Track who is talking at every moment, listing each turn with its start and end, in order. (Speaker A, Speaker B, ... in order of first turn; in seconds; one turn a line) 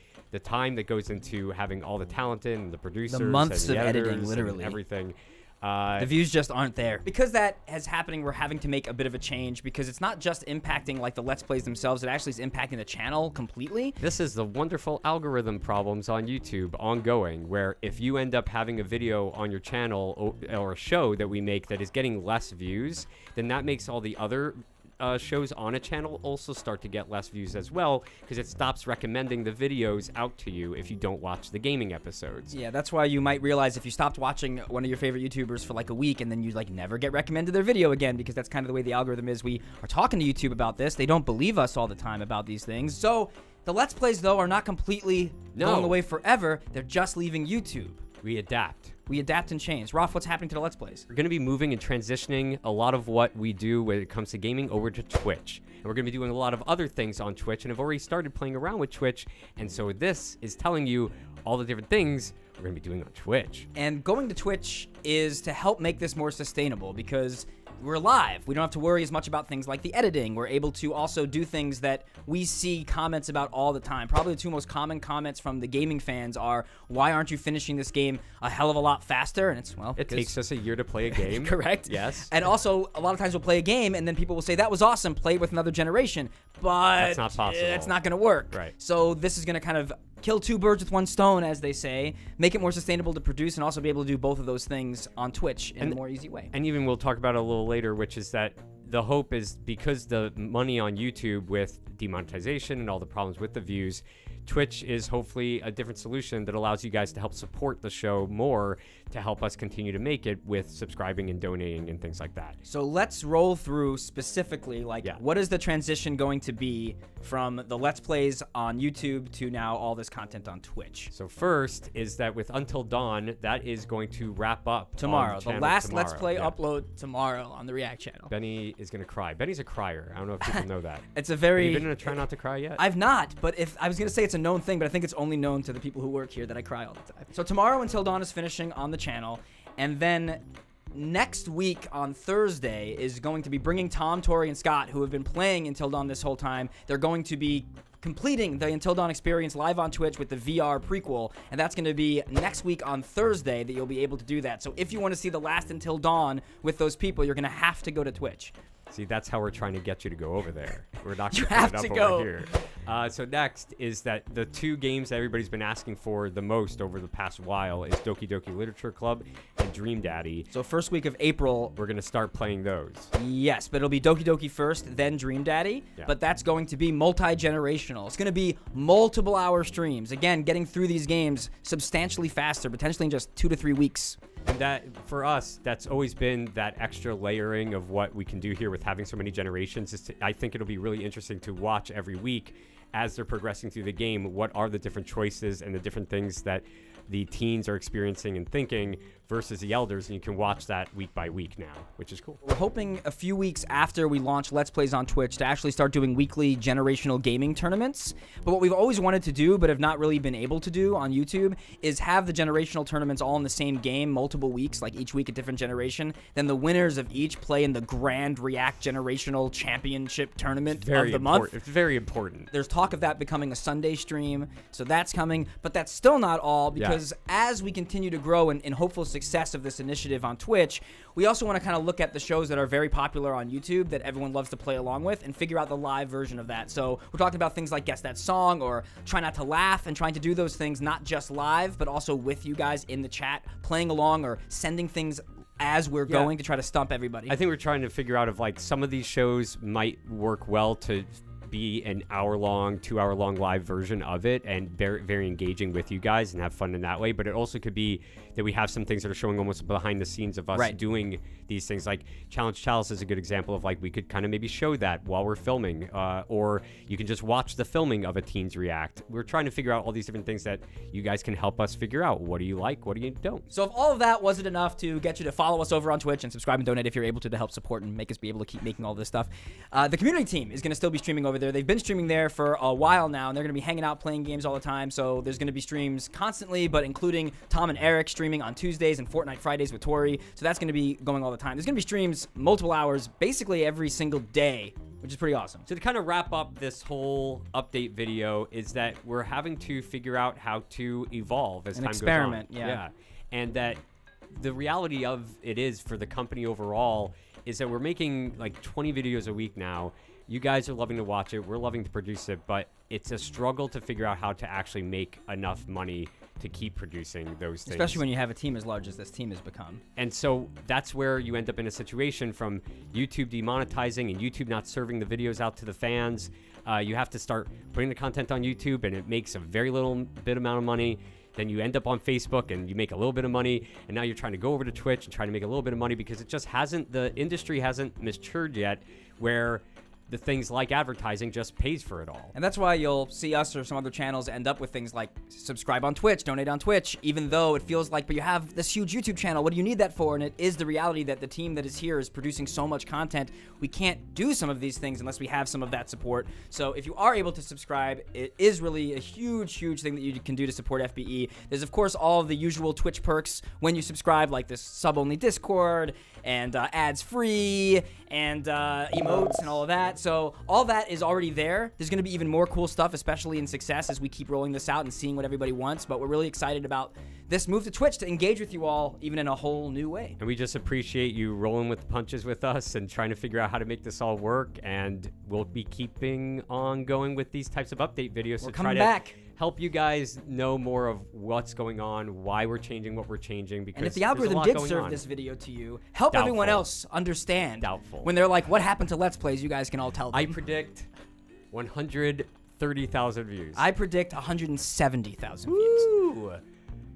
Speaker A: 0.3-6.1
Speaker B: 3.1-4.8
Speaker B: 6.0-14.0
Speaker A: 14.0-32.5
Speaker B: 32.5-48.0
Speaker A: 45.5-46.0
Speaker A: 48.2-49.0
Speaker B: 49.1-51.1
Speaker A: 51.1-63.7
Speaker B: 63.8-80.4
Speaker A: 80.0-82.3
Speaker B: 81.1-96.5
Speaker A: 87.0-88.0
Speaker A: 96.5-112.6
Speaker B: 112.7-121.1
Speaker A: 121.1-126.5
Speaker B: 125.0-128.3
Speaker A: 128.3-131.1
Speaker B: 130.4-132.2
Speaker A: 131.6-132.8
Speaker B: 132.8-158.5
Speaker A: 158.9-170.5
Speaker B: 161.3-162.5
Speaker B: 170.5-171.7
Speaker A: 171.8-173.1
Speaker B: 173.1-184.2
Speaker A: 184.4-202.4
Speaker B: 202.4-221.6
Speaker A: 220.7-222.5
Speaker B: 222.5-247.4
Speaker A: 226.7-227.0
Speaker A: 246.1-246.3
Speaker A: 247.3-273.5
Speaker B: 273.5-295.7
Speaker A: 295.7-303.8
Speaker B: 301.8-302.8
Speaker A: 304.4-318.0
Speaker B: 317.7-319.8
Speaker A: 320.0-342.3
Speaker B: 342.3-380.2
Speaker A: 380.2-395.0
Speaker B: 388.4-389.2
Speaker B: 393.8-400.4
Speaker A: 396.1-396.7
Speaker A: 397.6-398.1
Speaker A: 400.1-400.9
Speaker A: 401.5-403.6
Speaker B: 403.6-405.9
Speaker A: 405.5-406.4